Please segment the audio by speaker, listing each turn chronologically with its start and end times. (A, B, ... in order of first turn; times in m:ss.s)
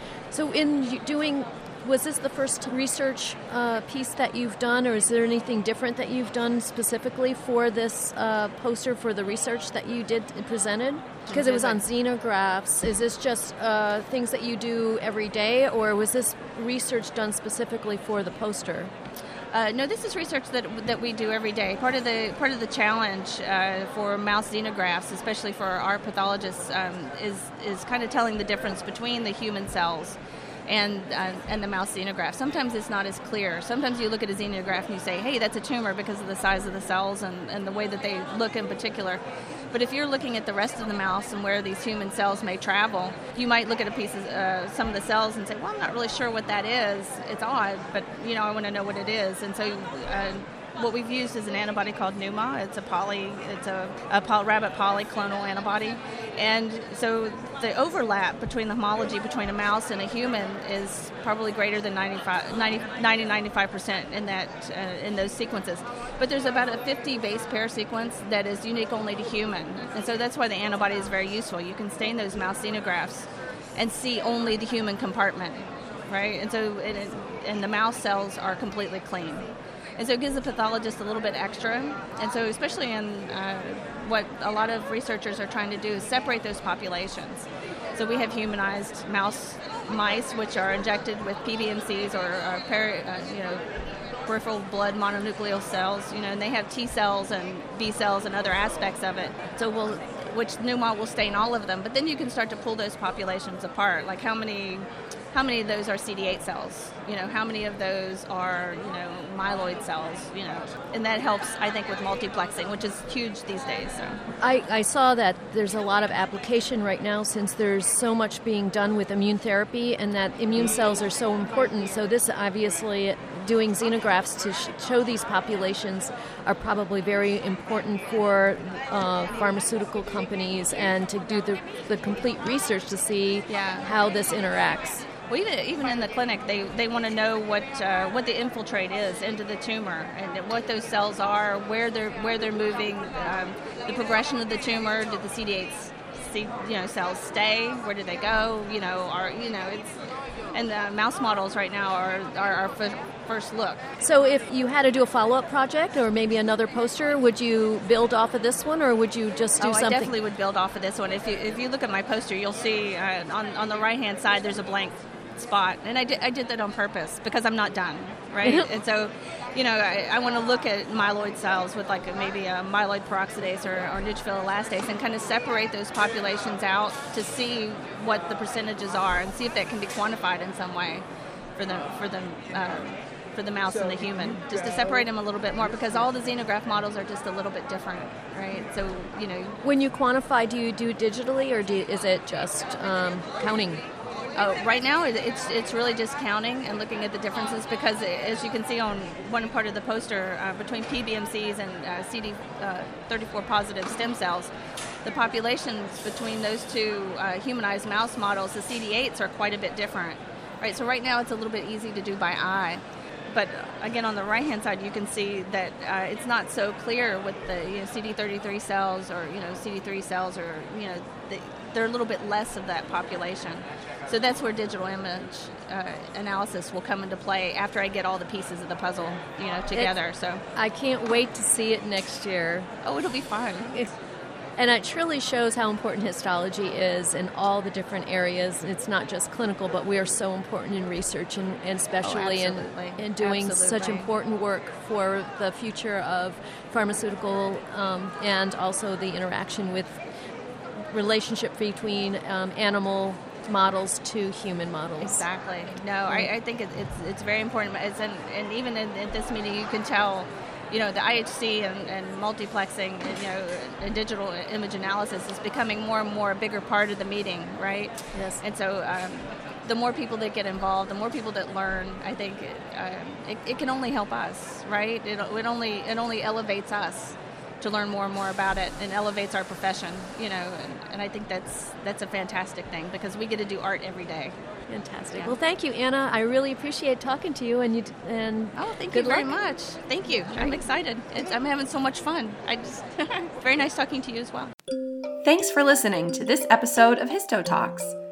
0:00.3-0:18.9 A
0:11.3-0:11.8 B
0:19.5-1:33.6 B
1:34.2-1:54.2 B
1:54.4-2:15.0 A
2:13.5-2:13.9 B
2:15.3-2:30.0 B
2:30.5-2:33.8 B
2:34.0-2:40.2 A
2:39.6-3:01.0 B
2:48.4-2:48.7 A
3:01.6-3:09.6 B
3:09.6-3:13.8 A
3:14.4-3:24.5 B
3:25.0-3:50.4 B
3:50.6-3:52.7 A
3:52.8-3:53.7 B
3:54.6-4:10.0 A
4:02.0-4:04.1 B
4:10.9-4:15.3 A
4:15.0-4:44.4 B
4:28.1-4:28.4 A
4:44.7-4:49.3 A
4:48.6-4:54.5 B
4:55.2-4:58.0 C